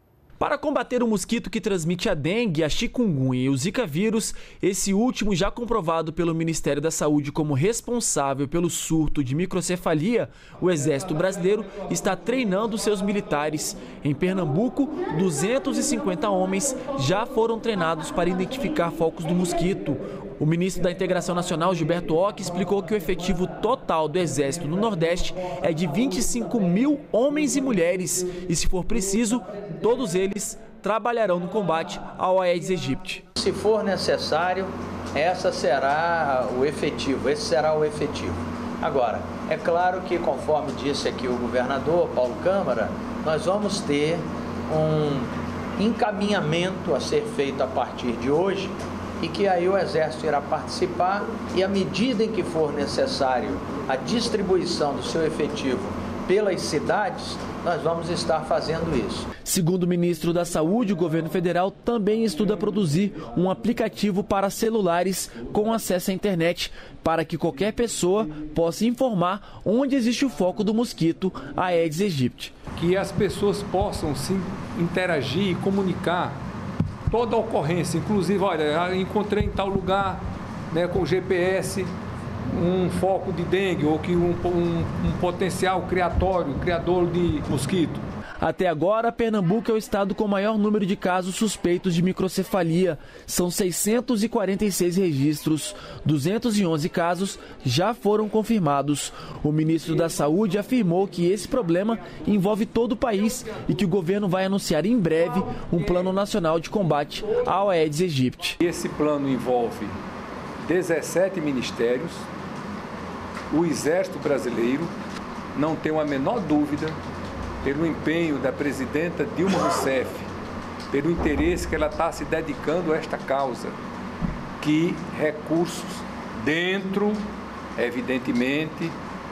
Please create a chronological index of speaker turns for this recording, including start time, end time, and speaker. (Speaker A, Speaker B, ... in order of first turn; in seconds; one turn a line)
Speaker A: 0.4-33.2
Speaker B: 33.4-59.3
Speaker A: 59.4-72.5
Speaker C: 72.7-76.4
Speaker C: 77.1-81.9
Speaker C: 82.5-88.0
Speaker A: 88.4-108.6
Speaker C: 108.6-110.0
Speaker C: 110.6-112.2
Speaker C: 113.5-114.9
Speaker C: 115.5-117.0
Speaker C: 117.6-120.3
Speaker C: 120.9-123.8
Speaker C: 124.6-128.9